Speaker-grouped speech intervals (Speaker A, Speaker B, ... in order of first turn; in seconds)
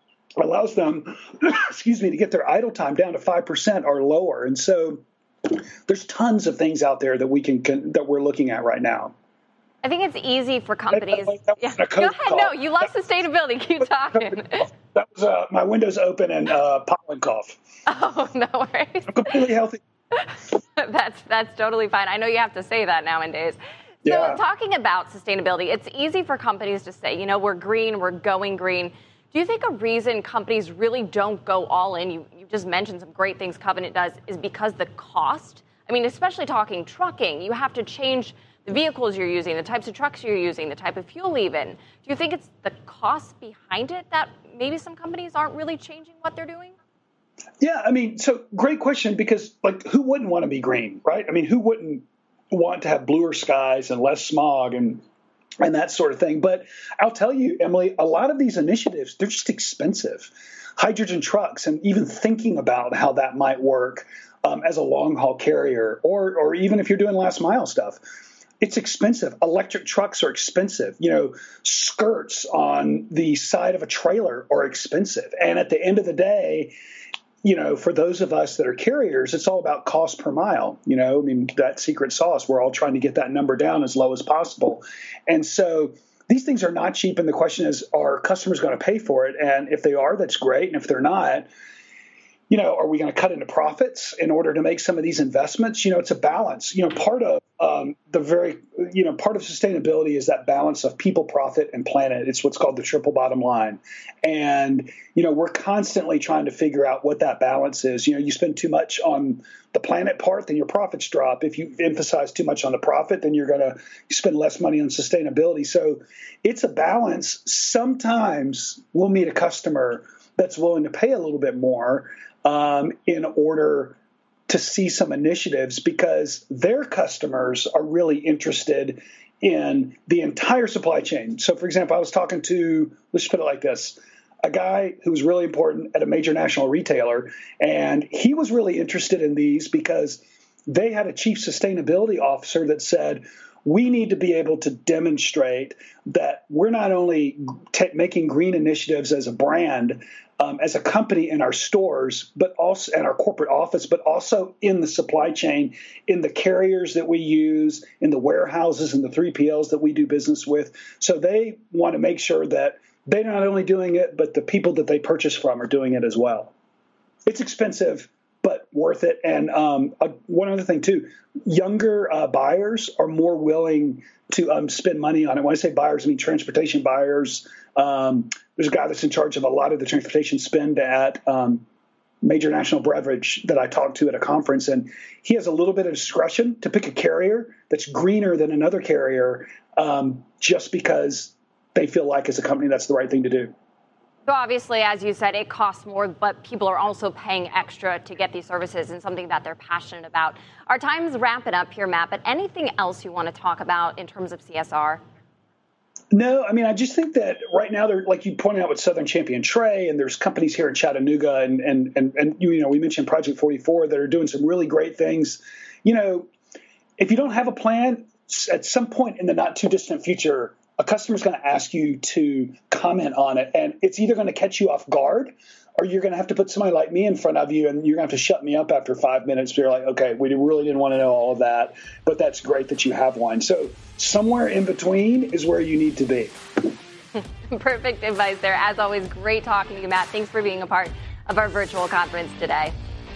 Speaker A: 0.4-9.1, 10.9-12.7, 14.1-17.6, 19.1-19.8, 24.1-24.4, 47.6-55.0, 55.6-68.0, 68.6-76.7, 77.4-91.5, 92.5-166.5, 167.3-181.6, 182.2-193.5, 206.1-216.3, 217.0-236.3
Speaker B: 9.8-14.7, 17.9-19.5, 20.1-46.8, 194.3-205.0, 237.2-242.8